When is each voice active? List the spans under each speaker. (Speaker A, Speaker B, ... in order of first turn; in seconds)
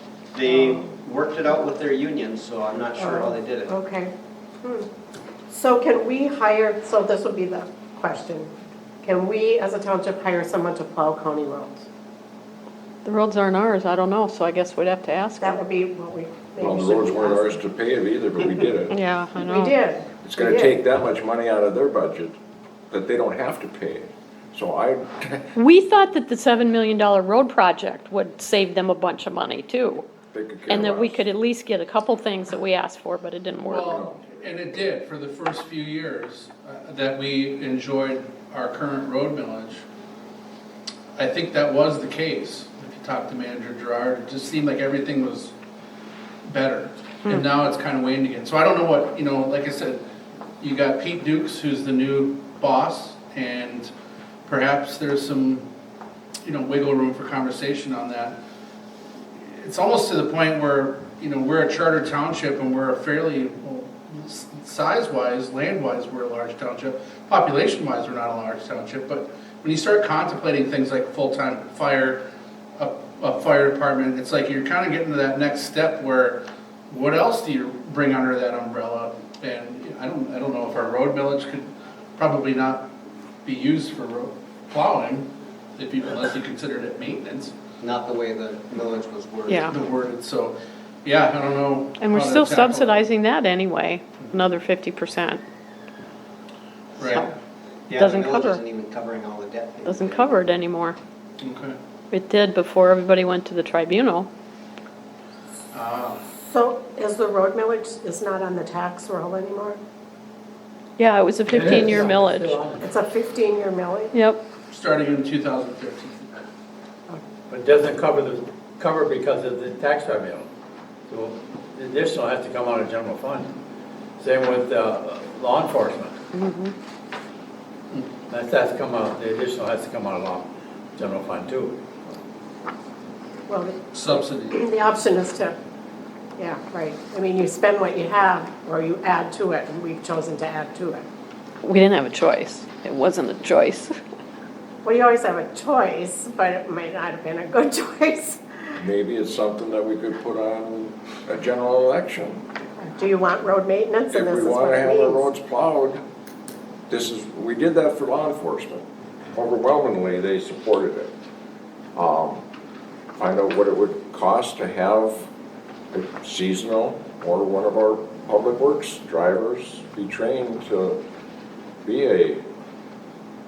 Speaker A: 0.3-3.8, 87.8-89.8, 97.9-100.5
Speaker B: 3.0-4.9, 5.5-8.5, 9.0-11.8, 15.4-17.5, 19.4-20.7, 106.4-109.8, 112.8-114.1, 133.5-135.5, 136.4-141.0, 144.8-148.8, 152.8-155.3
Speaker C: 13.0-15.6, 18.9-19.8, 25.6-30.1, 30.7-34.0, 89.5-89.7, 92.0-95.4, 97.0-97.3, 97.9-98.6, 99.8-101.0, 102.1-104.3, 111.0-112.6, 114.1-114.4, 126.3-126.7, 141.6-144.0
Speaker D: 16.6-18.9, 20.2-22.4, 22.9-25.5, 30.3-31.3, 33.7-34.2, 148.8-152.4, 154.1-156.0, 156.9-161.1, 161.9-162.4, 163.2-165.3, 165.9-171.0, 171.8-172.4
Speaker E: 33.6-39.8, 41.2-45.5, 46.4-50.0, 50.6-53.9, 54.5-55.6, 56.5-58.4, 59.4-72.2, 72.8-82.9, 83.4-87.5, 89.7-93.0, 97.0-97.3, 101.4-101.8, 105.7-106.2, 114.7-116.3, 133.9-134.6
Speaker F: 111.5-113.0, 117.5-120.5, 121.1-123.5, 124.2-126.2, 128.3-131.8